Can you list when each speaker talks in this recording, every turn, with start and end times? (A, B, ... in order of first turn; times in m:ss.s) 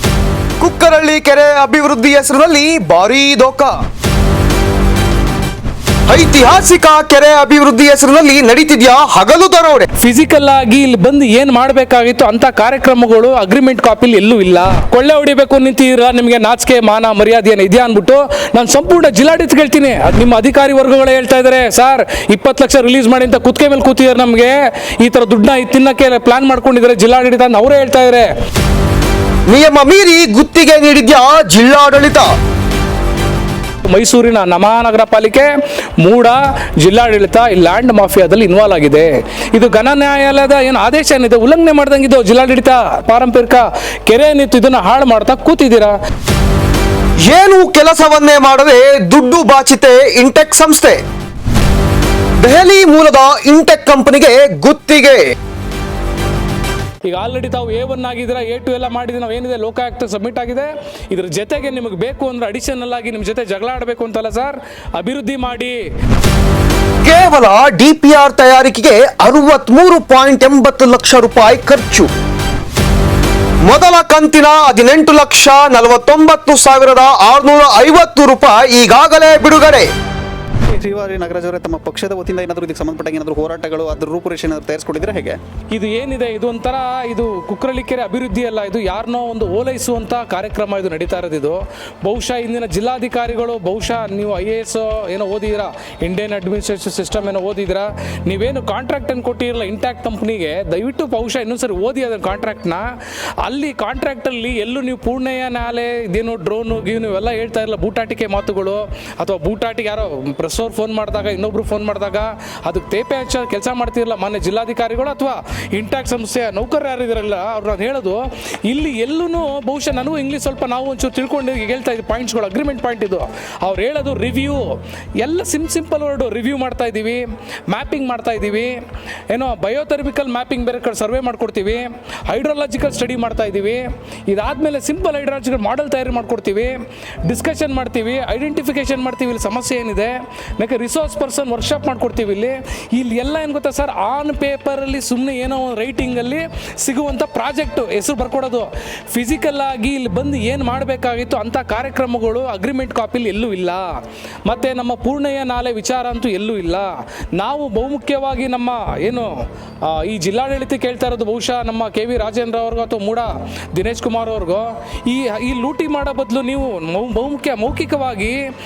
0:00.6-0:03.8 A
0:06.1-0:09.9 A
0:10.0-0:28.3 B
0:29.5-0:32.3 A
0:33.8-0:46.0 B
0:47.2-0:51.0 A
0:52.4-0:55.2 A
0:57.0-1:05.8 B
1:07.0-1:12.1 A
1:13.6-1:19.9 A
1:20.7-1:25.4 C
1:25.7-2:08.8 B
2:09.3-2:39.3 B
2:39.8-2:48.4 B